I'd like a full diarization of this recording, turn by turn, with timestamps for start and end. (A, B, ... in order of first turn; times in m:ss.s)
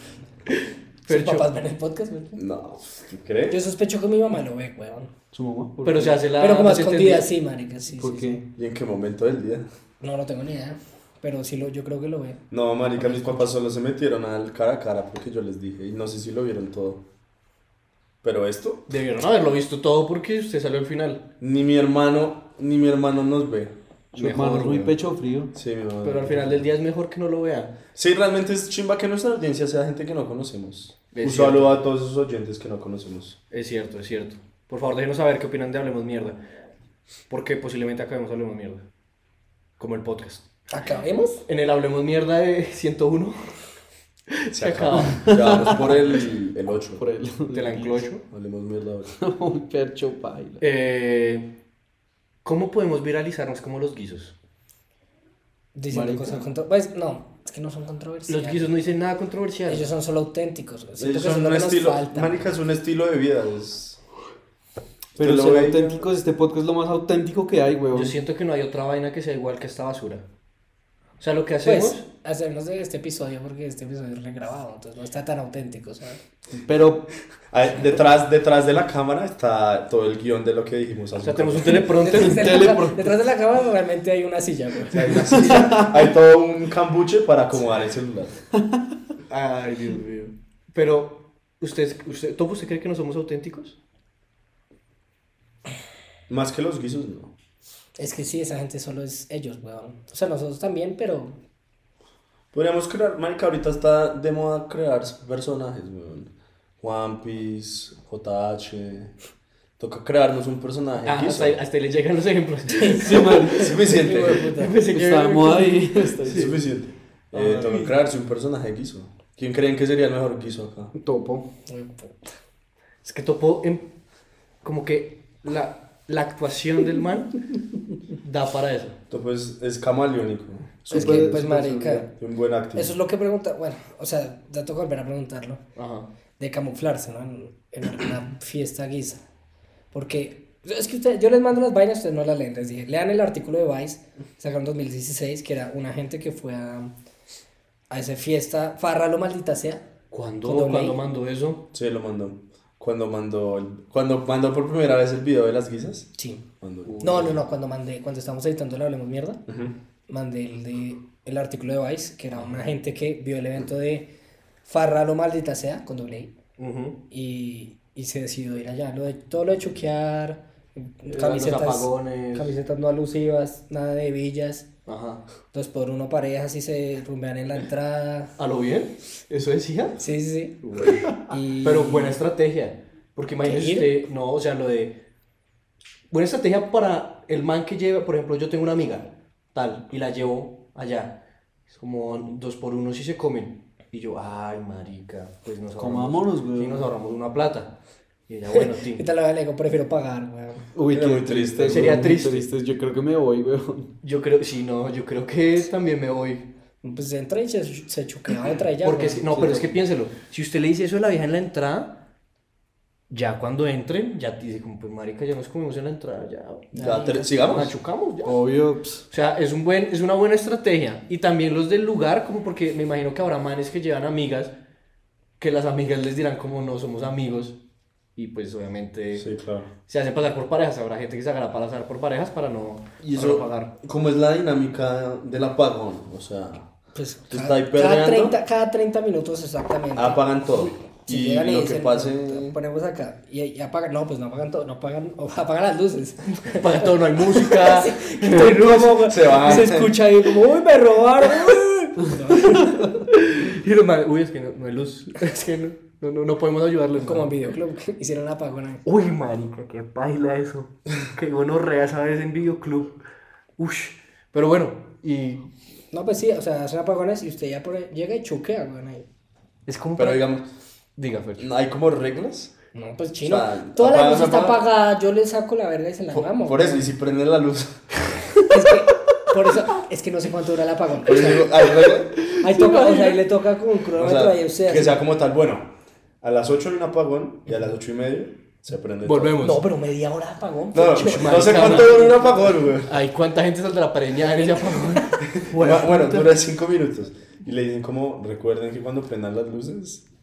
0:00.5-0:01.5 A
0:01.1-0:02.4 B
0:02.3-0:03.6 C
0:03.5-0:05.1 B
0:05.3-0:06.2 D
0:05.8-0:07.3 A
0:06.4-0:08.4 B
0:08.0-0:08.4 D
0:08.6-0:09.7 C
0:10.0-0:12.4 B
0:12.5-0:17.0 C
0:13.0-0:13.5 B
0:18.2-0:18.9 C
0:18.9-0:21.3 A
0:21.4-0:23.8 C
0:24.1-0:25.0 A
0:24.1-0:25.5 D
0:25.5-0:26.6 C
0:26.0-0:27.8 A
0:28.0-0:33.4 C
0:31.1-0:31.7 A
0:33.5-0:36.4 A
0:37.3-0:38.8 A
0:39.8-0:40.5 A
0:40.7-0:41.4 B
0:41.5-0:43.5 A
0:44.3-0:45.9 A
0:44.5-0:47.0 C
0:45.1-0:45.6 D
0:47.0-0:48.1 D
0:47.5-0:48.2 A
0:48.3-0:49.1 C
0:49.2-0:50.6 D
0:50.6-0:51.6 A
0:52.4-0:54.4 A
0:55.8-0:58.7 B
0:55.9-0:56.5 D
0:58.3-0:59.9 A
0:59.7-1:02.4 B
1:01.0-1:04.0 C
1:05.2-1:08.2 D
1:05.2-1:06.0 C
1:07.9-1:10.2 A
1:11.2-1:12.0 A
1:11.6-1:16.2 B
1:16.6-1:17.1 D
1:17.5-1:21.9 C
1:21.2-1:22.7 A
1:21.8-1:25.4 B
1:22.2-1:23.1 D
1:24.9-1:28.4 C
1:25.0-1:25.8 A
1:25.4-1:25.8 D
1:29.3-1:33.8 A
1:36.3-1:37.3 C
1:38.0-1:41.4 B
1:42.5-1:49.2 C
1:49.8-1:51.6 C
1:51.0-1:56.6 A
1:52.8-1:54.7 B
1:53.0-1:53.7 D
1:53.5-1:54.5 C
1:54.9-1:56.5 D
1:56.3-2:00.9 C
1:57.3-1:57.9 A
2:01.0-2:01.5 D
2:01.7-2:02.3 B
2:03.0-2:03.9 A
2:04.6-2:07.4 A
2:08.2-2:09.0 A
2:09.1-2:13.0 C
2:10.9-2:12.0 D
2:10.9-2:12.1 B
2:12.8-2:15.6 B
2:15.8-2:16.1 A
2:16.4-2:19.2 B
2:19.9-2:26.9 B
2:27.9-2:29.9 B
2:30.1-2:31.7 A
2:30.4-2:31.0 B
2:31.7-2:37.4 C
2:36.2-2:36.4 B
2:37.0-2:39.4 B
2:39.5-2:39.8 C
2:40.1-2:44.1 B
2:44.6-2:46.3 B
2:46.6-2:47.0 A
2:47.1-2:54.7 B
2:51.1-2:52.5 A
2:54.9-2:55.2 A
2:55.5-2:58.3 B
2:58.4-3:00.0 A
3:00.0-3:00.6 B
3:00.6-3:05.0 A
3:01.2-3:02.2 B
3:03.4-3:03.9 B
3:06.1-3:19.0 A
3:15.8-3:16.9 D
3:18.5-3:20.7 B
3:20.8-3:23.9 D
3:20.9-3:22.1 C
3:21.6-3:22.5 A
3:24.0-3:26.5 A
3:26.8-3:29.4 B
3:28.8-3:32.0 A
3:33.1-3:38.4 A
3:36.7-3:37.3 B
3:36.7-3:37.8 C
3:38.2-3:39.0 D
3:39.1-3:44.5 A
3:45.4-3:47.6 A
3:48.2-3:49.3 A
3:49.2-3:49.7 C
3:49.9-3:53.7 A
3:53.0-3:56.7 C
3:57.0-4:12.9 B
3:57.3-3:58.4 C
4:00.0-4:02.6 C
4:06.3-4:09.5 A
4:09.1-4:09.9 C
4:13.1-4:17.3 A
4:17.0-4:18.8 B
4:18.8-4:23.0 A
4:23.6-4:25.5 A
4:25.9-4:29.1 B
4:29.7-4:30.4 A
4:30.0-4:30.5 C
4:31.0-4:31.5 A
4:31.4-4:32.5 C
4:32.7-4:36.9 B
4:33.2-4:34.6 C
4:36.1-4:37.9 C
4:38.5-4:41.5 B
4:41.0-4:42.2 C
4:42.3-4:45.0 B
4:42.6-4:43.1 A
4:44.0-4:45.7 C
4:46.2-4:49.5 C
4:49.0-4:49.7 A
4:49.4-4:52.6 B
4:50.7-4:53.0 C
4:51.0-4:52.1 A
4:52.8-4:56.4 A
4:55.3-5:00.0 C